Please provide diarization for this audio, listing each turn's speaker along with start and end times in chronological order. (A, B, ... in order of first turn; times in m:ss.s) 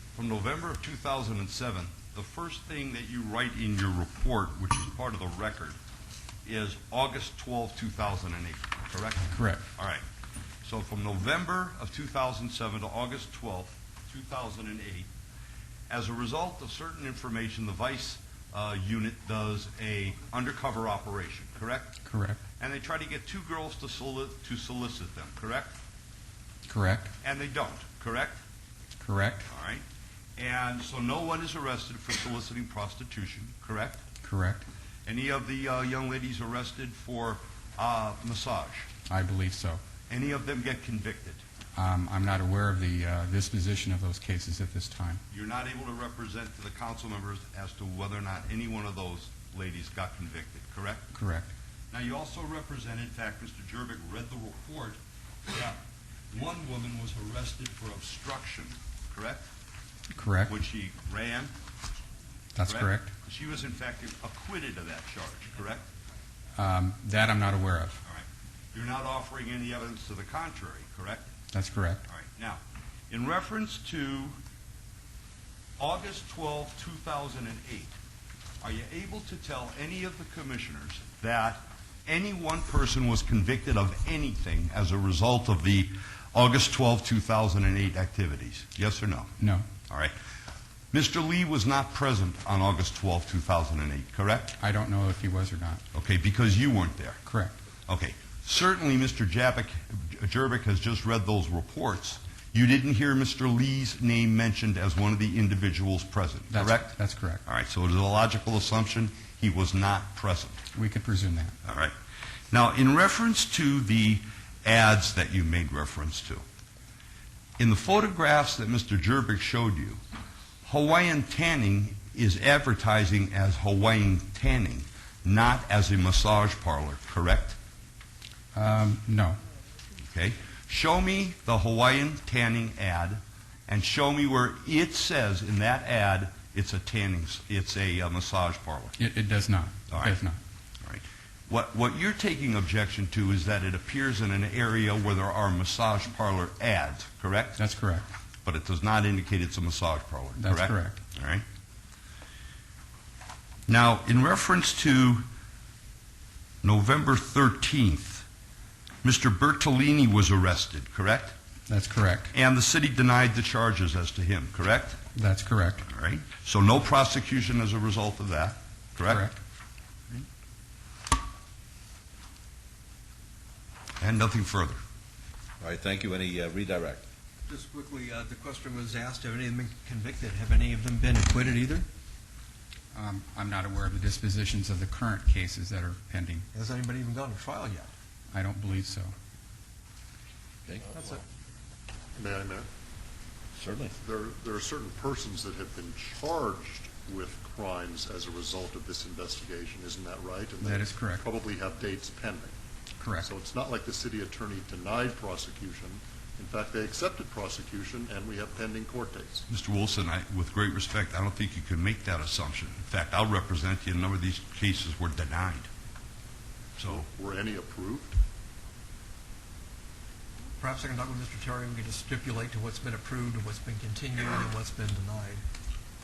0:00.2-0:05.8 A
0:06.4-0:10.0 A
0:09.3-0:09.6 B
0:10.6-0:15.1 A
0:15.9-0:22.0 A
0:22.0-0:22.4 B
0:22.6-0:25.7 A
0:26.7-0:27.1 B
0:27.2-0:28.4 A
0:29.0-0:29.5 B
0:29.5-0:29.8 A
0:30.4-0:34.0 A
0:34.2-0:34.6 B
0:35.1-0:38.9 A
0:39.1-0:39.8 B
0:40.1-0:41.4 A
0:41.8-0:45.2 B
0:45.3-0:51.1 A
0:51.1-0:51.5 B
0:51.9-0:55.0 A
0:55.5-0:55.8 A
0:56.3-0:59.5 A
1:00.2-1:00.6 B
1:00.5-1:01.5 A
1:02.6-1:03.1 B
1:02.6-1:05.9 A
1:06.6-1:08.0 B
1:08.0-1:11.3 A
1:11.5-1:12.0 B
1:12.1-1:14.4 A
1:15.8-1:17.9 A
1:18.6-1:29.3 A
1:29.4-1:29.7 B
1:30.9-1:34.6 A
1:34.6-1:35.8 B
1:35.9-1:37.2 A
1:37.3-1:37.6 B
1:37.9-1:50.6 A
1:46.5-1:47.4 B
1:50.7-1:51.6 B
1:51.6-1:51.9 A
1:52.5-1:56.4 A
1:57.6-2:00.0 A
2:00.6-2:07.6 A
2:08.5-2:09.4 B
2:10.0-2:19.0 A
2:19.0-2:20.4 B
2:19.9-2:20.2 A
2:20.8-2:27.6 A
2:27.6-2:28.1 B
2:28.4-2:31.4 A
2:30.4-2:31.0 B
2:33.7-2:35.2 A
2:36.6-2:38.3 A
2:39.0-2:41.3 A
2:41.7-2:42.3 B
2:42.3-2:45.0 A
2:45.2-2:45.8 B
2:45.8-2:49.3 A
2:49.0-2:49.4 B
2:54.0-2:54.8 A
2:55.6-2:57.0 C
2:57.5-3:01.9 D
3:02.9-3:06.5 B
3:06.5-3:07.9 D
3:08.3-3:09.1 B
3:10.7-3:11.2 C
3:10.9-3:11.2 D
3:12.2-3:12.7 E
3:13.6-3:13.9 C
3:14.0-3:22.6 E
3:20.6-3:21.3 B
3:23.0-3:23.3 B
3:23.2-3:29.5 E
3:29.5-3:35.7 A
3:36.8-3:37.0 A
3:36.8-3:38.2 E
3:40.6-3:45.4 D